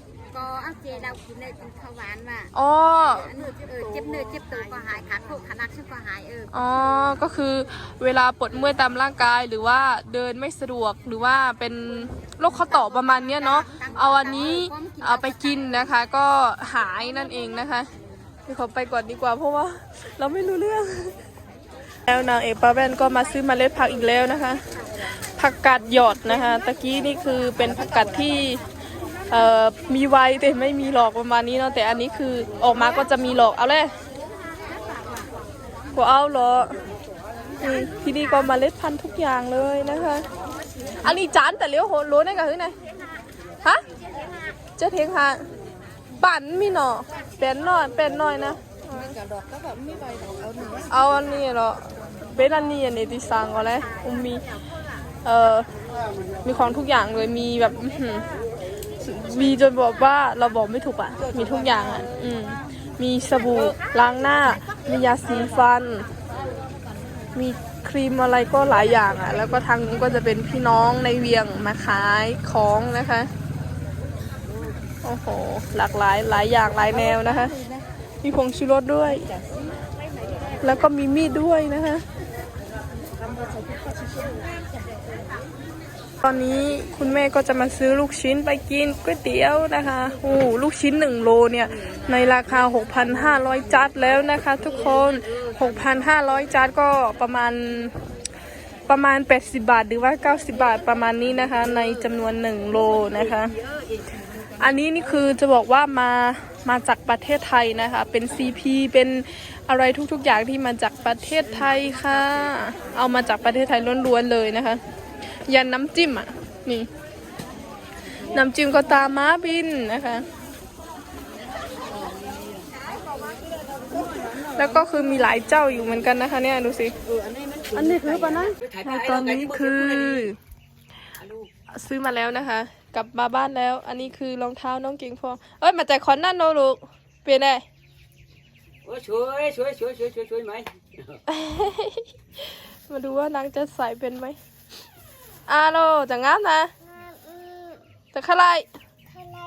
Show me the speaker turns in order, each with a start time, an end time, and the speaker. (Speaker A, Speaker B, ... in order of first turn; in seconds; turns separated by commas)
Speaker A: 0.3-2.5, Speaker B: 2.5-3.3, Speaker A: 3.3-6.5, Speaker B: 6.5-17.9, Speaker A: 13.1-13.9, Speaker A: 14.5-15.1, Speaker B: 18.5-21.1, Speaker B: 22.1-28.6, Speaker B: 29.3-33.9, Speaker A: 34.4-35.3, Speaker B: 35.9-36.8, Speaker B: 37.6-40.3, Speaker B: 41.0-42.7, Speaker B: 44.8-45.4, Speaker B: 46.2-49.2, Speaker B: 50.9-54.5, Speaker B: 55.2-55.7, Speaker B: 56.4-58.2, Speaker B: 59.0-66.1, Speaker B: 67.3-73.3, Speaker B: 75.0-77.6, Speaker B: 78.2-79.3, Speaker B: 80.6-82.0, Speaker B: 86.2-98.1, Speaker B: 98.9-103.5, Speaker B: 104.6-114.8, Speaker B: 115.5-116.9, Speaker B: 118.3-120.2, Speaker B: 124.5-126.9, Speaker A: 127.7-128.5, Speaker C: 128.5-130.1, Speaker B: 128.8-130.4, Speaker B: 131.7-137.6, Speaker C: 138.8-141.1, Speaker B: 141.3-144.4, Speaker B: 145.5-146.7, Speaker B: 148.1-148.7